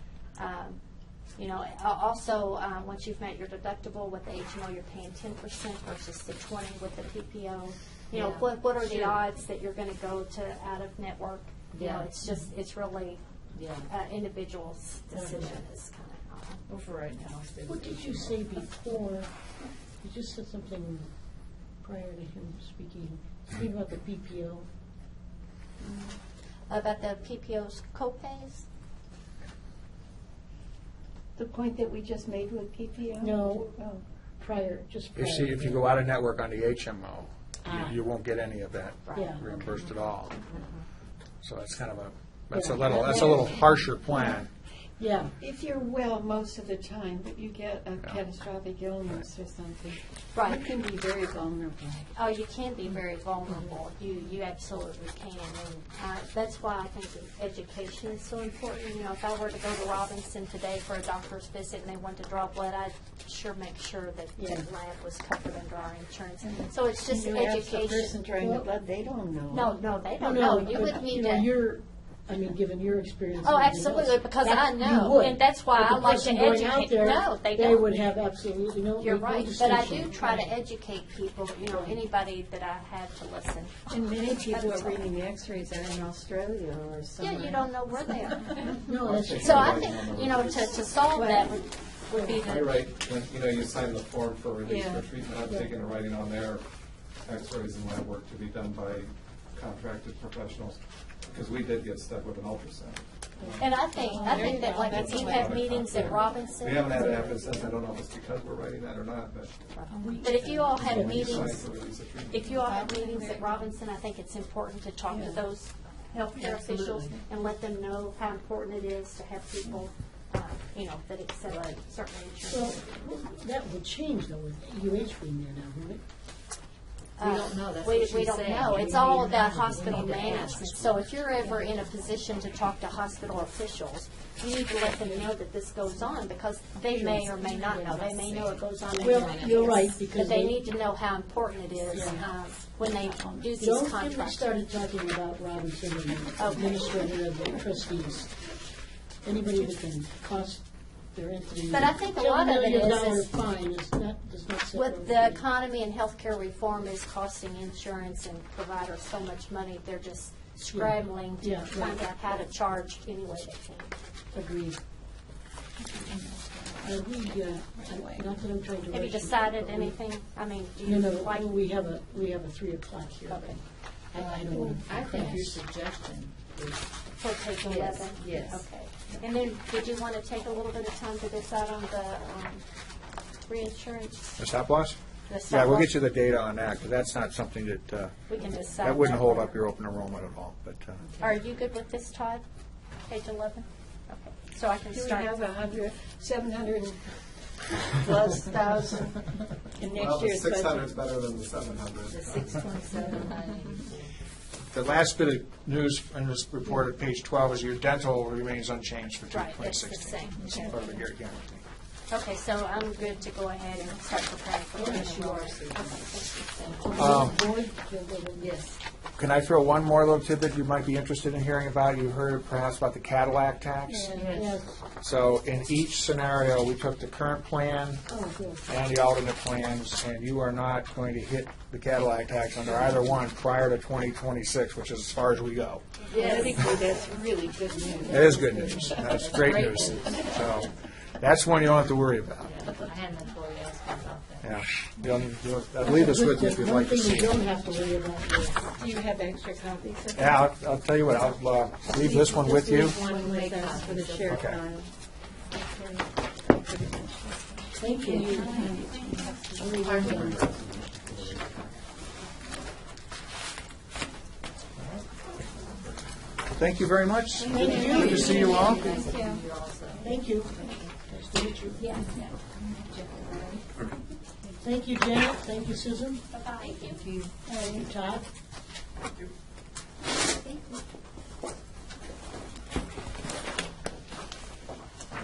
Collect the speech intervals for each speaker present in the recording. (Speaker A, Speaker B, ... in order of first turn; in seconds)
Speaker A: 0.4-0.8, 1.4-13.2, 13.9-16.6, 26.7-28.7, 50.3-50.6, 52.1-68.2, 69.5-71.5, 73.4-77.9, 79.0-85.0, 87.2-92.9, 103.6-107.3, 109.7-111.7, 112.3-123.1, 127.2-144.5, 146.4-146.8, 151.7-153.3, 154.7-163.9, 168.9-171.6, 173.3-173.6, 177.2-182.6, 183.5-184.3, 185.3-185.9, 188.3-189.5, 191.2-192.4, 193.1-195.3, 209.3-211.0, 212.1-217.3, 267.6-269.4, 271.8-272.1, 276.3-277.0
Speaker B: 8.1-9.2, 11.7-12.1, 13.6-13.9, 127.2-130.9, 165.9-166.9, 174.2-176.9, 177.6-178.7, 202.1-204.1, 214.8-216.1, 216.7-217.1, 218.4-218.8, 224.1-224.6, 238.5-240.3, 242.4-244.6, 252.7-254.6, 258.1-260.5, 267.4-270.9, 272.1-273.6, 276.6-277.4
Speaker C: 15.1-15.6, 17.7-19.3, 20.0-21.1, 21.8-24.7, 33.2-33.8, 34.4-36.0, 37.6-38.0, 39.1-39.5, 42.5-43.5, 45.0-45.3, 64.4-64.7, 68.4-68.7, 70.2-80.5, 81.7-82.0, 88.8-89.9, 103.4-105.6, 110.0-111.6, 122.5-126.0, 136.9-138.2, 139.0-140.6, 141.9-142.3, 143.6-148.4, 149.2-155.4, 160.7-162.1, 164.3-164.8, 166.8-170.0, 170.8-175.6, 214.8-215.1, 216.8-218.6, 223.9-224.8, 228.1-228.6, 245.8-248.7, 257.8-258.8, 259.6-260.4, 267.5-268.6, 270.0-271.9, 274.6-276.2, 277.5-278.3
Speaker D: 16.7-17.2, 25.8-26.1, 31.4-34.0, 45.4-52.1, 66.7-69.8, 83.9-87.8, 91.2-91.5, 94.7-95.1, 104.0-105.5, 109.9-110.4, 112.6-113.7, 115.1-115.4, 116.3-117.3, 194.9-200.9, 236.0-238.9, 248.8-250.5, 252.0-254.9, 255.5-259.6
Speaker E: 35.1-40.4, 41.4-44.5, 184.4-185.0, 185.5-188.2, 188.8-191.1, 204.7-211.6, 216.9-217.4, 219.2-224.3, 225.0-228.0, 228.7-236.0, 238.1-242.5, 244.4-247.4, 250.2-253.0, 254.3-254.6, 266.5-268.9
Speaker F: 88.9-90.9, 92.4-96.6, 97.2-103.8, 105.0-109.6, 110.7-112.5, 199.9-202.5, 260.0-261.6